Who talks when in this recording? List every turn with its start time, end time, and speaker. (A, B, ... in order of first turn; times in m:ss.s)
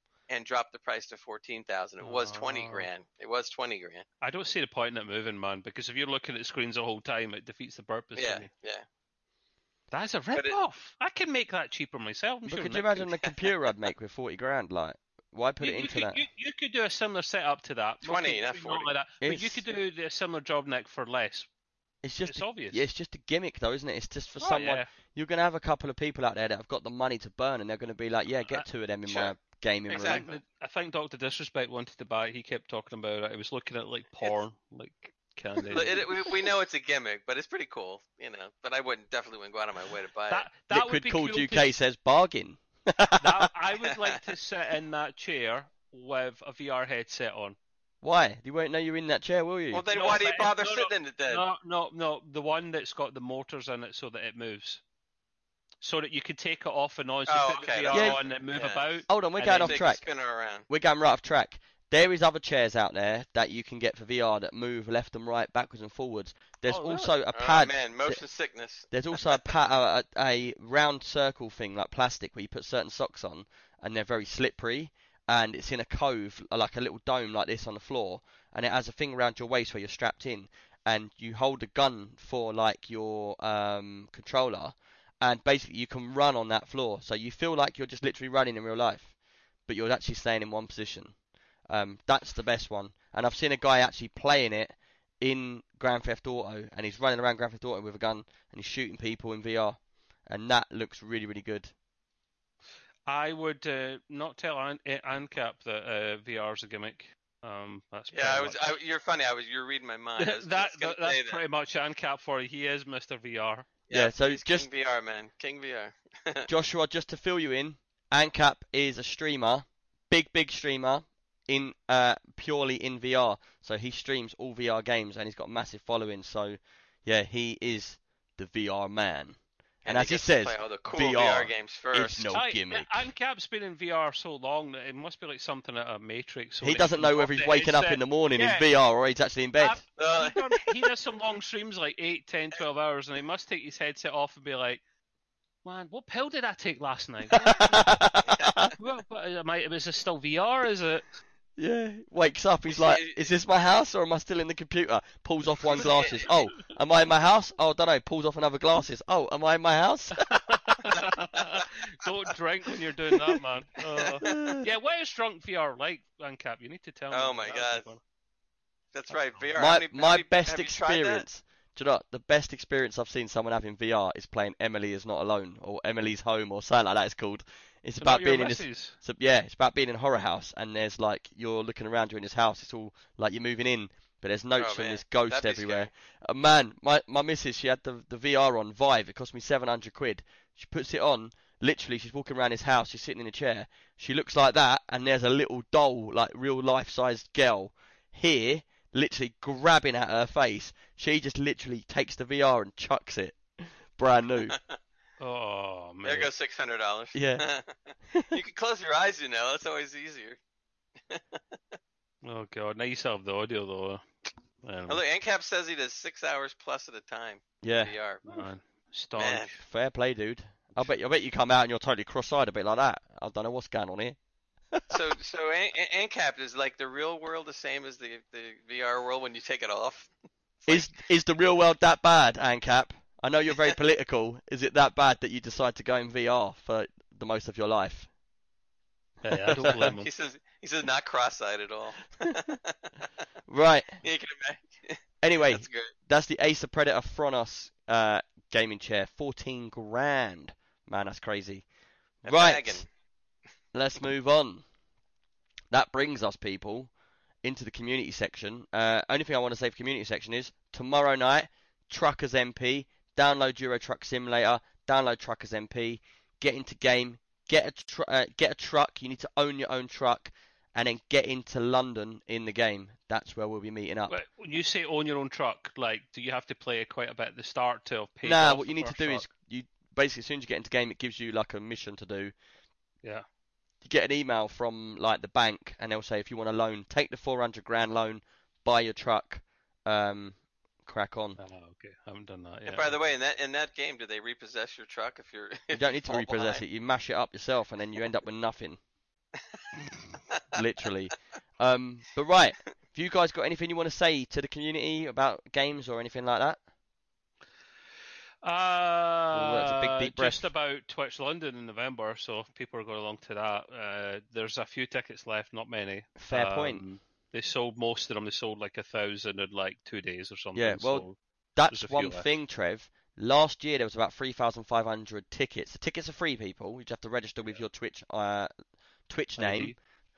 0:00.3-0:04.0 A
0:02.0-0:02.9 B
0:04.2-0:08.5 B
0:08.2-0:08.8 A
0:09.9-0:13.1 B
0:12.5-0:16.2 C
0:15.6-0:21.5 B
0:18.0-0:18.9 A
0:19.2-0:19.6 C
0:22.0-0:30.3 C
0:22.2-0:22.8 B
0:24.4-0:24.9 B
0:29.1-0:29.3 A
0:29.9-0:30.3 A
0:30.1-0:36.1 B
0:35.7-0:40.5 A
0:40.3-0:41.7 B
0:40.7-0:43.5 C
0:43.2-0:47.6 B
0:48.0-0:49.9 C
0:49.7-0:51.4 A
0:49.9-0:54.8 B
0:55.8-0:59.8 B
0:57.3-0:58.9 A
0:57.9-0:58.2 C
0:59.1-1:00.0 C
0:59.6-1:00.7 A
1:00.7-1:08.2 C
1:06.7-1:07.2 B
1:07.3-1:09.4 A
1:08.9-1:29.1 C
1:29.7-1:31.2 C
1:31.7-1:41.7 C
1:43.1-1:48.8 B
1:48.1-1:51.4 A
1:50.2-1:53.7 B
1:53.9-1:56.5 A
1:53.9-1:54.7 C
1:56.5-2:13.1 C
2:09.8-2:12.3 A
2:12.3-2:18.7 B
2:16.6-2:19.8 C
2:19.6-2:24.8 B
2:20.0-2:20.6 A
2:25.6-2:27.8 B
2:27.4-2:28.7 C
2:28.8-2:31.2 B
2:31.6-2:40.4 C
2:32.7-2:33.3 A
2:35.7-2:36.3 A
2:35.8-2:36.4 B
2:40.3-2:48.0 B
2:44.2-2:44.6 C
2:47.1-2:47.9 A
2:48.9-2:51.2 A
2:49.6-3:24.6 C
2:58.0-2:59.0 B
3:04.6-3:05.9 A
3:24.5-3:24.8 A
3:25.2-3:26.3 B
3:26.0-3:30.4 A
3:27.1-3:27.4 C
3:31.1-3:31.6 A
3:32.2-3:34.1 B
3:34.6-3:35.0 B
3:34.9-3:38.3 A
3:37.6-3:37.9 C
3:38.2-3:39.6 B
3:39.2-3:39.5 A
3:39.6-3:44.2 C
3:44.7-3:45.0 C
3:44.9-3:50.1 A
3:50.6-3:50.9 A
3:50.7-3:58.1 C
3:59.2-4:00.1 B
3:59.3-3:59.9 C
3:59.6-4:03.1 A
4:03.5-4:04.0 C
4:04.0-4:05.9 A
4:05.2-4:11.7 C
4:12.2-4:12.9 A
4:12.3-4:12.8 C
4:13.7-4:14.6 C
4:15.7-4:16.9 C
4:17.4-4:34.2 C
4:34.1-4:39.3 B
4:38.2-4:42.3 C
4:43.8-4:51.4 C
4:51.4-4:52.9 B
4:52.7-4:56.6 A
4:55.7-4:58.8 C
5:00.5-5:06.6 C
5:08.4-5:21.2 B
5:09.3-5:10.5 C
5:16.2-5:16.8 C
5:20.6-5:28.5 C
5:21.7-5:22.3 B
5:29.1-5:29.8 C
5:29.4-5:29.8 B